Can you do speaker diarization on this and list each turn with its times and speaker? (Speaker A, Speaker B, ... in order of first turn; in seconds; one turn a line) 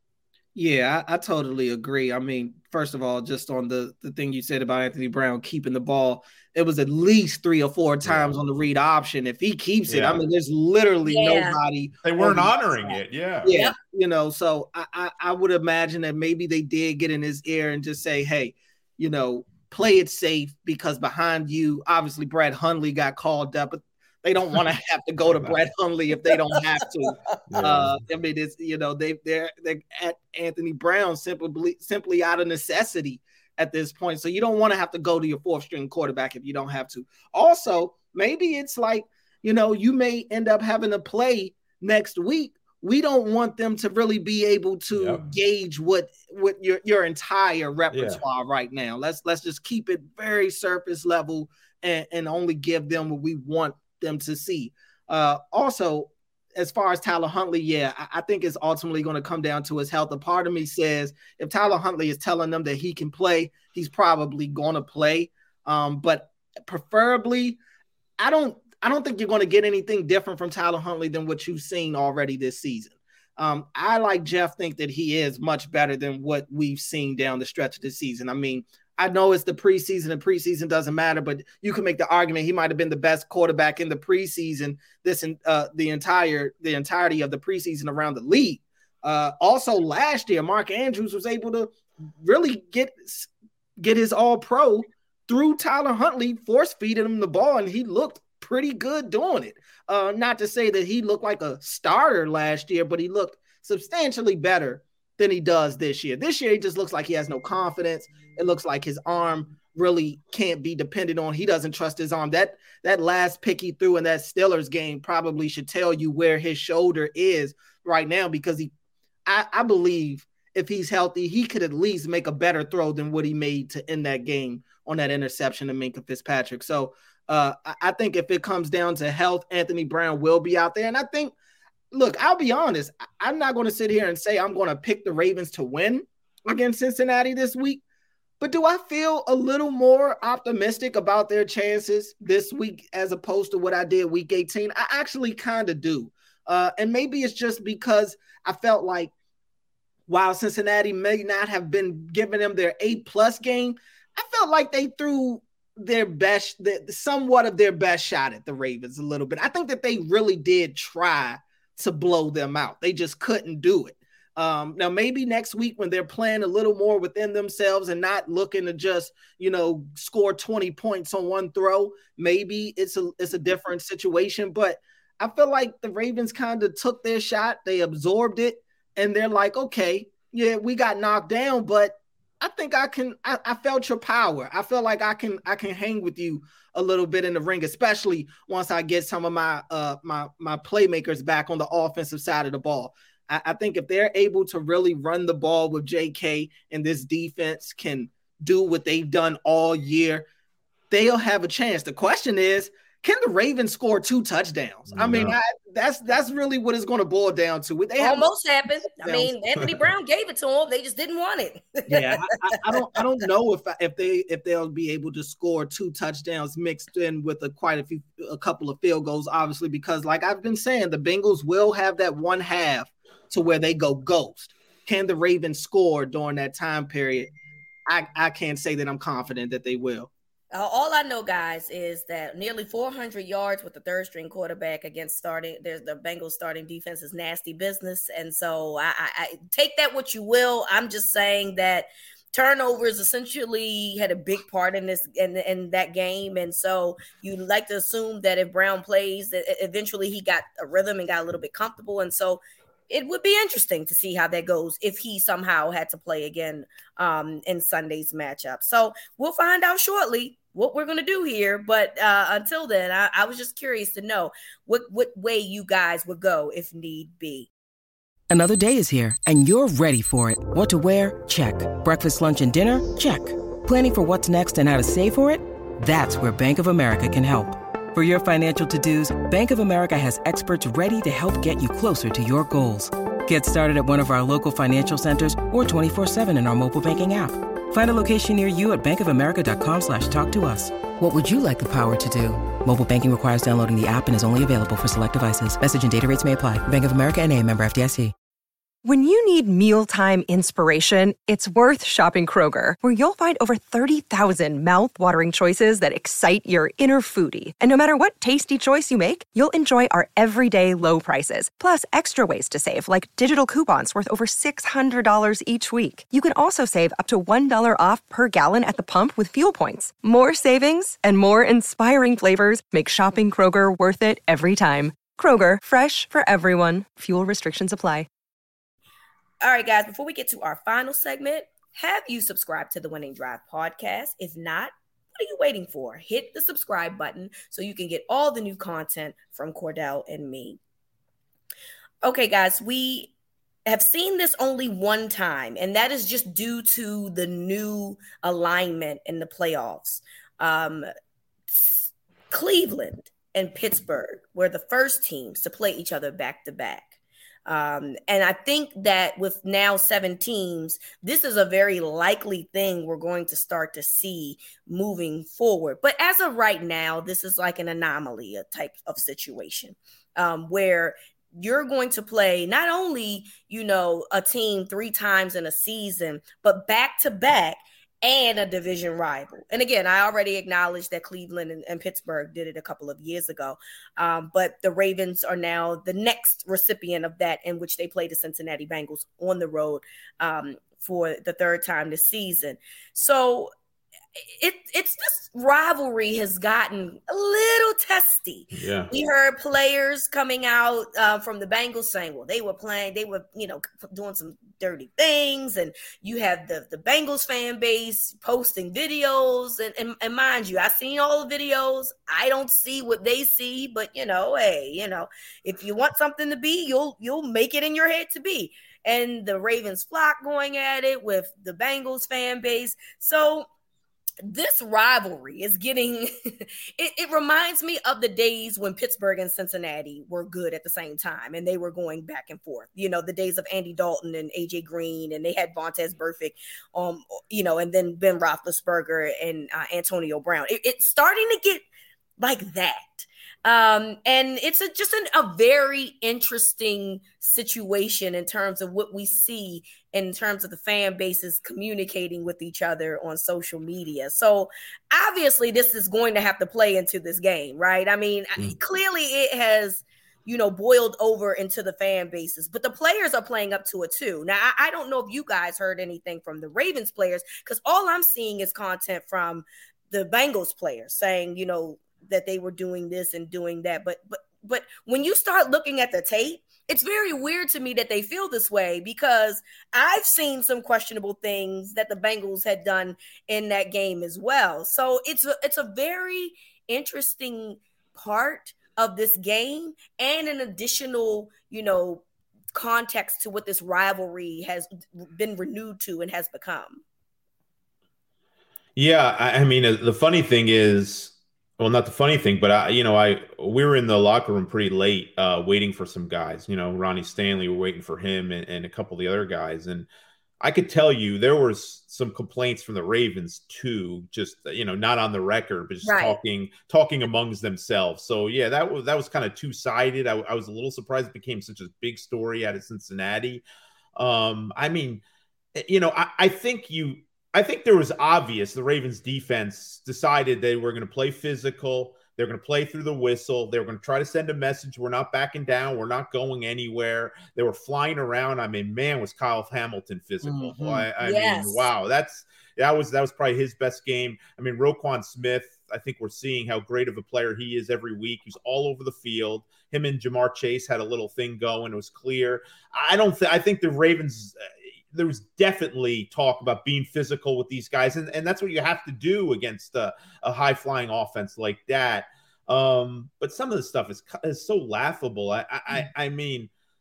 Speaker A: 0.5-12.5
Speaker B: 8.0-8.4
Speaker B: 9.9-10.2
Speaker C: 11.0-11.6
Speaker B: 12.0-13.5
Speaker A: 13.4-67.6
Speaker C: 13.5-13.7
Speaker B: 27.5-28.0
Speaker B: 44.9-45.2
Speaker B: 47.9-48.2
Speaker A: 68.2-118.7
Speaker A: 119.2-131.3
Speaker A: 131.9-137.8
Speaker A: 138.4-149.1
Speaker A: 150.1-200.2
Speaker A: 200.9-208.3
Speaker B: 204.9-205.4
Speaker C: 208.0-212.3
Speaker A: 208.9-209.3
Speaker A: 211.9-227.3
Speaker A: 227.8-230.1
Speaker C: 230.5-267.5
Speaker D: 268.3-298.1
Speaker E: 298.8-328.1
Speaker C: 329.4-340.6
Speaker C: 342.0-343.1
Speaker C: 343.6-350.9
Speaker C: 351.5-356.9
Speaker C: 357.4-393.5
Speaker C: 394.3-423.5
Speaker B: 398.5-398.9
Speaker C: 424.2-441.6
Speaker C: 442.2-492.0
Speaker C: 492.5-496.8
Speaker B: 498.8-509.9
Speaker B: 510.4-523.4
Speaker C: 515.8-516.2
Speaker B: 524.0-525.0
Speaker B: 525.5-566.5
Speaker A: 540.2-540.9
Speaker C: 541.0-541.7